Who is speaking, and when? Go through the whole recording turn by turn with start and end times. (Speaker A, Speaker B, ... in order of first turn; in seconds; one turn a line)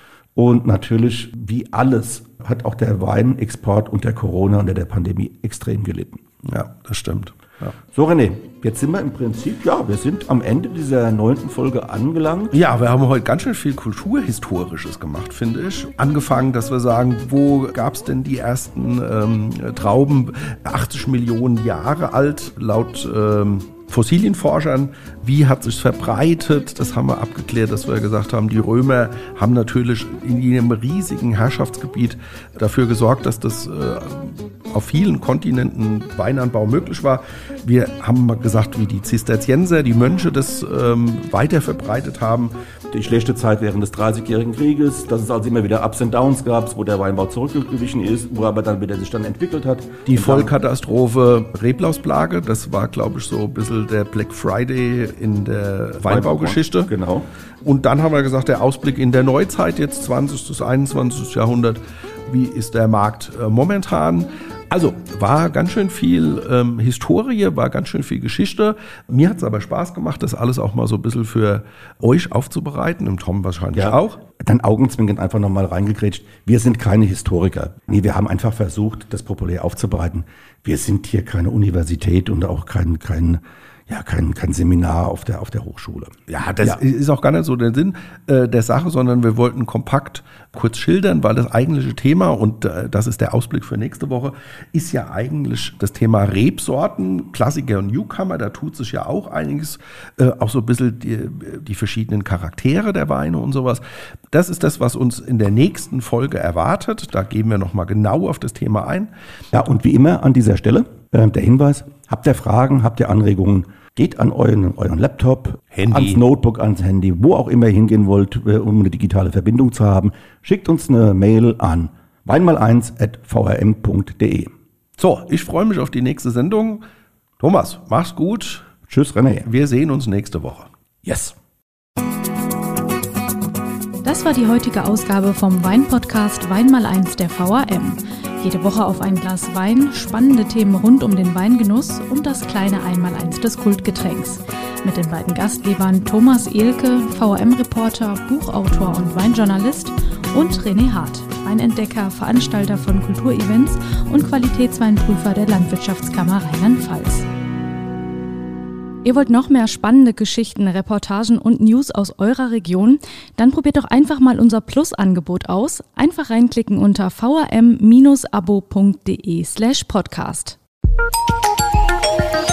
Speaker A: 0.3-6.2
Speaker B: 6.4-7.7
Speaker A: 7.9-12.6
Speaker B: 12.5-42.5
Speaker A: 42.9-50.5
Speaker B: 50.0-56.9
Speaker A: 56.0-57.3
Speaker B: 57.6-74.2
Speaker A: 73.7-86.8
Speaker B: 86.3-109.1
Speaker A: 109.5-124.5
Speaker B: 115.7-116.2
Speaker B: 125.0-126.8
Speaker B: 127.4-128.7
Speaker A: 128.9-129.5
Speaker B: 129.4-130.7
Speaker A: 131.0-131.3
Speaker C: 134.0-157.2
Speaker C: 159.0-170.6